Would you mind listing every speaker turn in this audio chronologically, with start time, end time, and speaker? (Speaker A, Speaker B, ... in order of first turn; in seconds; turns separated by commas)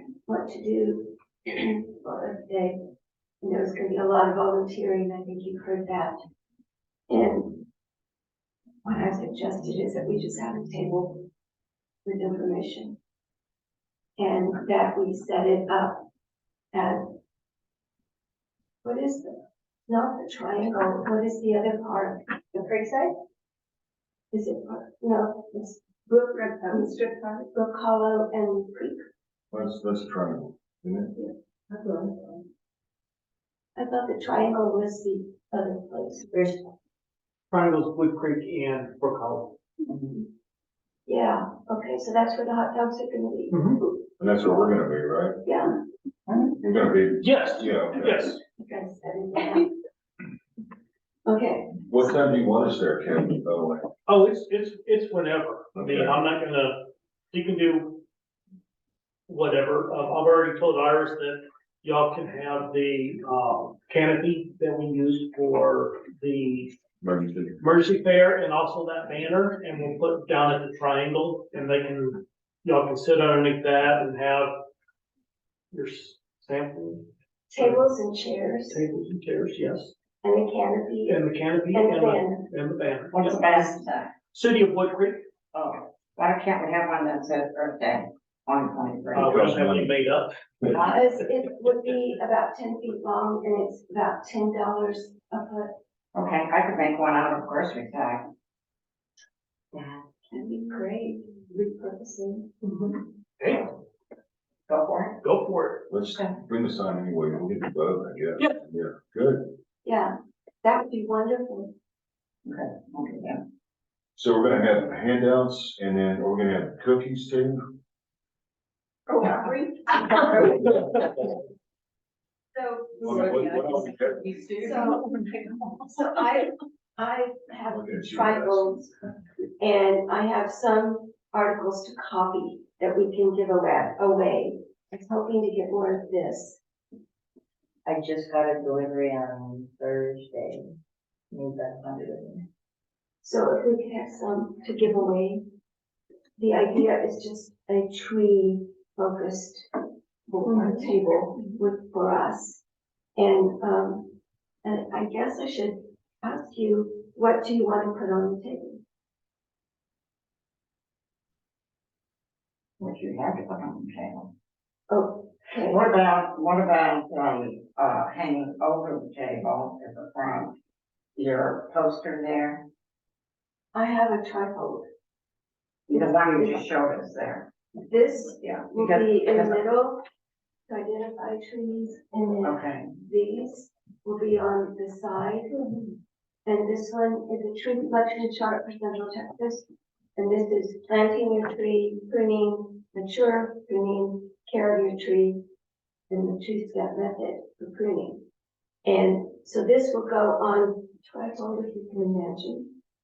Speaker A: 0.2-2.8, Speaker A: 3.4-6.2, Speaker A: 7.1-7.6, Speaker A: 8.8-11.2, Speaker A: 12.0-13.0, Speaker A: 14.2-16.0, Speaker A: 16.7-17.1, Speaker A: 18.8-23.0, Speaker A: 24.3-29.0, Speaker B: 29.5-31.1, Speaker C: 31.7-32.3, Speaker A: 33.8-36.4, Speaker C: 36.3-36.6, Speaker D: 37.5-39.5, Speaker A: 40.0-40.2, Speaker A: 41.1-44.1, Speaker D: 43.5-43.8, Speaker B: 44.2-45.4, Speaker A: 45.4-45.8, Speaker A: 46.6-46.9, Speaker B: 46.6-48.3, Speaker D: 47.2-48.4, Speaker A: 48.6-49.7, Speaker A: 51.2-51.8, Speaker B: 51.9-53.9, Speaker D: 54.1-58.0, Speaker B: 55.7-56.2, Speaker D: 59.3-66.7, Speaker B: 67.0-67.6, Speaker D: 67.6-74.5, Speaker D: 75.7-77.1, Speaker A: 77.5-78.8, Speaker D: 77.6-77.9, Speaker D: 78.7-79.9, Speaker A: 80.2-82.5, Speaker D: 81.1-83.5, Speaker E: 83.1-84.1, Speaker D: 84.3-85.2, Speaker E: 85.5-89.5, Speaker D: 89.1-90.3, Speaker B: 89.2-89.9, Speaker A: 90.7-95.7, Speaker E: 96.1-98.3, Speaker E: 99.7-100.0, Speaker A: 100.3-102.5, Speaker D: 102.6-103.7, Speaker E: 104.7-105.2, Speaker D: 105.2-105.9, Speaker B: 105.9-109.5, Speaker A: 109.8-111.7, Speaker E: 112.5-113.4, Speaker B: 114.2-117.6, Speaker A: 119.1-120.7, Speaker A: 122.5-125.0, Speaker B: 123.0-124.4, Speaker A: 125.8-128.9, Speaker B: 127.7-128.8, Speaker A: 129.6-136.6, Speaker C: 137.8-140.8, Speaker C: 141.3-142.4, Speaker A: 143.2-145.4, Speaker A: 146.4-149.7, Speaker A: 150.3-152.6, Speaker A: 153.2-158.8, Speaker E: 162.8-164.3, Speaker A: 164.9-165.8, Speaker E: 165.6-170.5, Speaker E: 171.2-172.6, Speaker A: 173.7-174.8, Speaker A: 175.9-176.6, Speaker E: 175.9-177.5, Speaker A: 177.8-180.0, Speaker E: 178.4-179.6, Speaker A: 180.7-185.6, Speaker E: 182.4-182.9, Speaker A: 186.4-195.4, Speaker A: 196.1-198.2, Speaker A: 198.8-202.7